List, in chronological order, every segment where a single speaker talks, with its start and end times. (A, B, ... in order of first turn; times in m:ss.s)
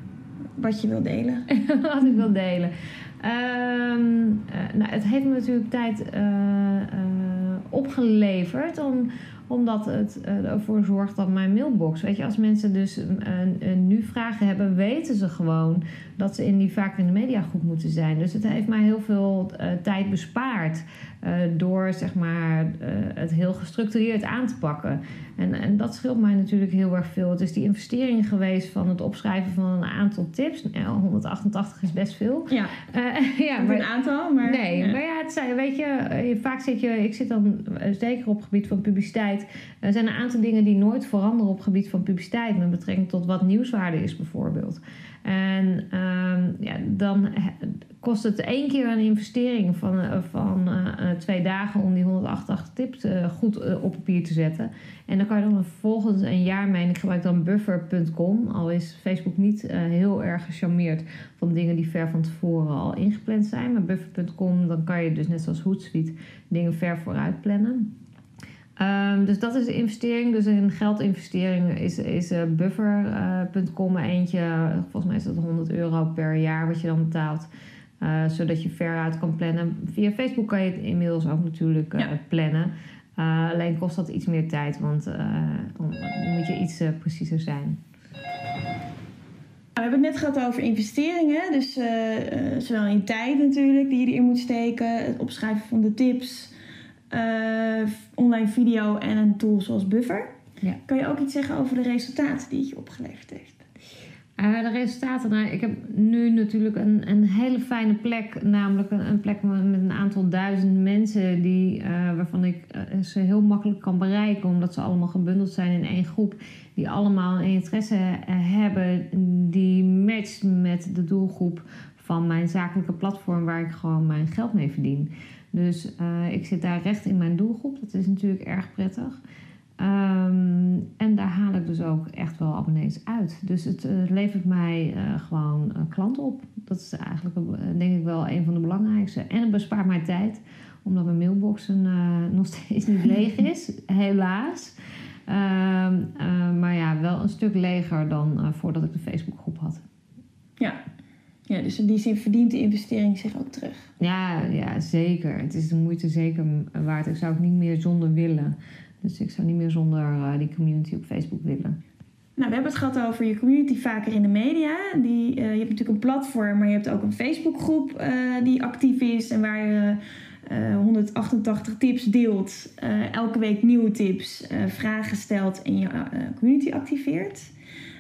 0:00.6-0:01.5 A
0:01.5-0:33.9 B
0:32.5-0:32.8 A
0:33.6-0:35.0 A
0:34.4-1:07.9 B
1:08.8-1:17.5 B
1:18.0-1:27.8 B
1:29.8-1:36.5 A
1:37.1-1:40.3 A
1:40.9-1:43.6 A
1:44.4-2:09.2 B
2:09.8-2:24.8 B
2:25.3-2:29.8 B
2:31.5-2:33.9 A
2:34.0-2:41.8 B
2:42.4-2:57.5 A